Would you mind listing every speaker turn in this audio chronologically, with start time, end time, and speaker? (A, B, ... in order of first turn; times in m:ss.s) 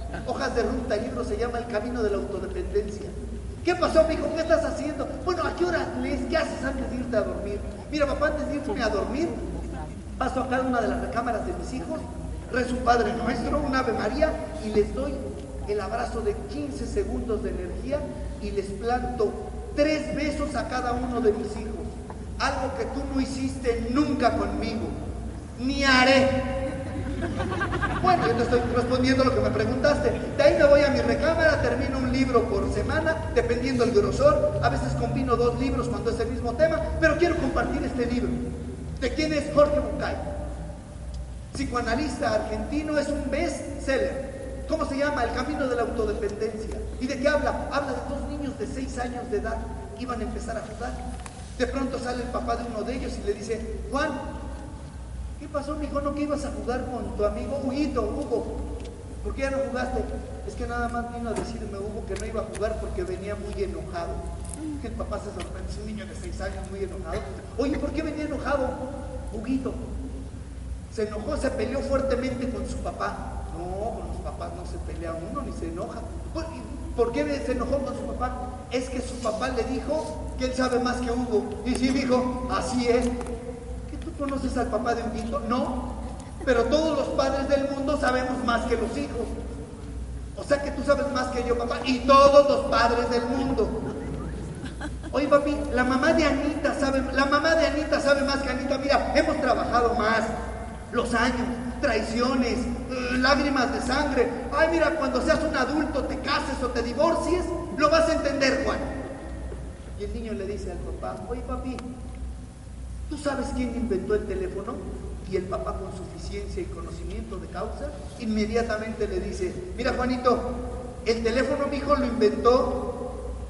0:00.2-0:09.4 A
0:10.2-0:25.0 A
0:25.6-0:26.5 A
0:28.0-0:38.4 A
0:39.0-0:40.2 A
0:41.5-0:51.0 A
0:51.6-0:54.2 A
0:55.4-0:58.5 A
0:59.2-1:04.2 A
1:04.8-1:09.8 A
1:10.9-1:23.2 A
1:23.9-1:25.9 A
1:26.4-1:29.3 A
1:30.4-1:33.8 A
1:35.1-1:40.3 A
1:40.9-1:48.9 A
1:50.0-1:51.8 A
1:53.1-2:00.5 A
2:01.0-2:02.8 A